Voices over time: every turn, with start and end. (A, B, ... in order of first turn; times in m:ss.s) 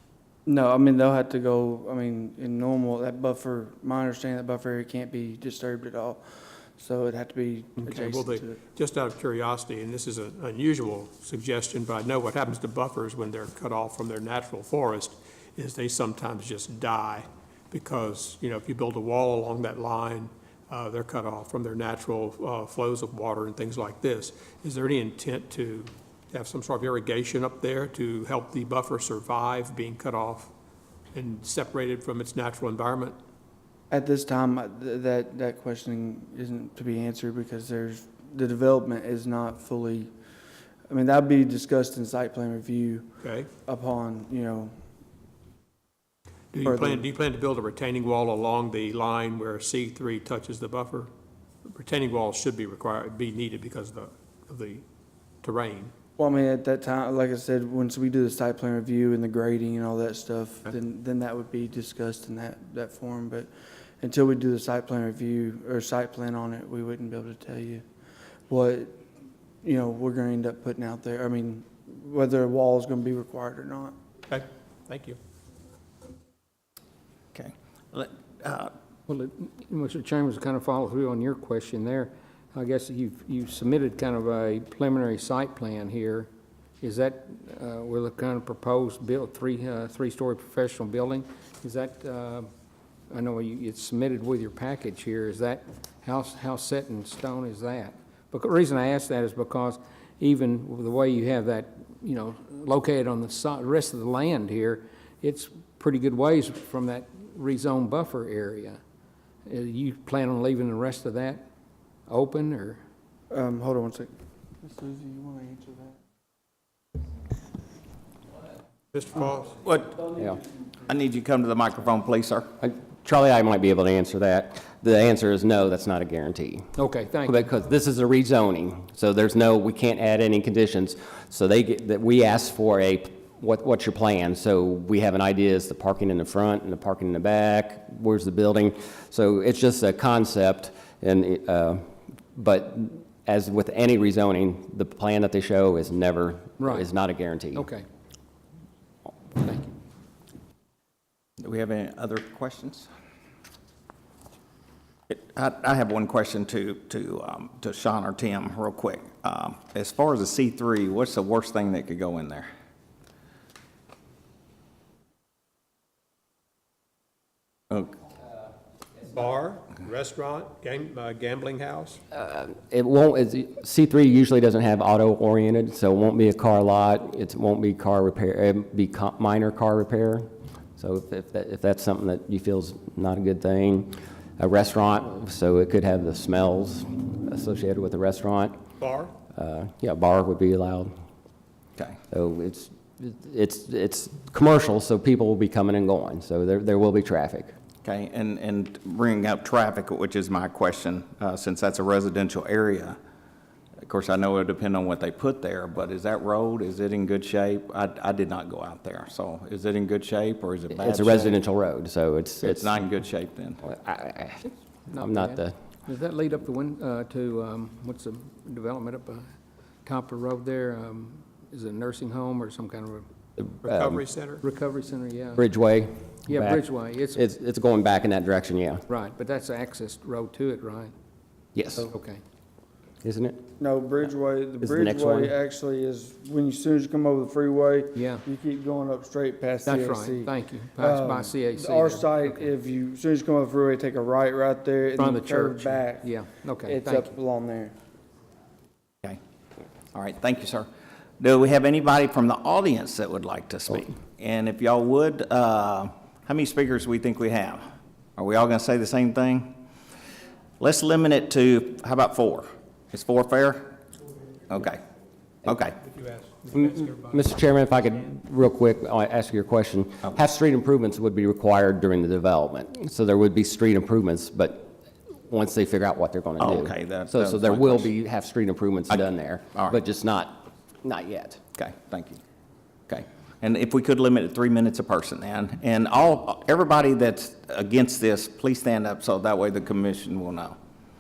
0:00.4-0:06.2 A
0:06.8-0:08.6 A
0:07.8-0:30.5 B
0:31.1-0:33.2 B
0:33.9-0:40.1 A
0:40.9-0:43.1 A
0:43.2-0:43.5 B
0:43.6-0:44.7 A
0:46.5-0:51.1 B
0:46.6-0:47.1 A
0:51.6-0:54.8 B
0:55.4-0:55.9 B
0:56.2-1:03.5 A
1:04.0-1:07.8 A
1:08.5-1:09.0 A
1:09.6-1:13.9 A
1:14.3-1:15.2 B
1:17.3-1:18.7 C
1:19.1-1:26.3 D
1:26.8-1:32.5 D
1:33.1-1:48.8 D
1:49.4-1:51.4 D
1:52.1-1:52.8 D
1:53.3-1:54.1 A
1:54.6-1:56.0 A
1:58.9-1:59.6 B
1:59.6-2:00.1 C
2:00.1-2:00.4 E
2:00.8-2:02.5 C
2:02.6-2:06.7 E
2:06.8-2:07.4 D
2:07.2-2:27.7 E
2:26.6-2:26.9 D
2:27.5-2:27.8 D
2:29.3-2:29.7 D
2:31.4-2:32.9 C
2:35.1-2:42.5 C
2:49.0-2:52.0 B
2:52.1-3:08.6 E
3:08.8-3:09.1 B
3:09.3-3:10.9 E
3:12.1-3:17.5 E
3:17.8-3:23.0 C
3:23.8-3:31.4 C
3:30.8-3:32.8 E
3:32.4-3:33.6 C
3:33.6-3:35.6 E
3:34.5-3:39.2 D
3:39.8-3:43.0 D
3:43.5-3:44.0 E
3:43.6-3:44.4 B
3:44.4-3:45.5 D
3:45.4-3:48.8 E
3:46.3-3:47.2 D
3:48.9-3:50.9 D
3:51.5-3:51.9 E
3:51.9-3:52.2 D
3:53.0-3:53.4 E
3:53.6-4:06.1 A
3:54.6-3:55.3 E
3:57.9-3:58.2 D
3:59.6-4:02.4 D
4:05.0-4:07.1 D
4:06.6-4:07.7 A
4:09.9-4:10.7 C
4:11.2-4:17.6 C
4:18.2-4:19.6 C
4:20.6-4:23.7 C
4:24.5-4:24.8 C
4:25.4-4:25.8 C
4:25.9-4:27.1 B
4:26.5-4:41.4 E
4:36.4-4:37.9 C
4:41.6-4:42.2 C
4:42.9-4:50.6 C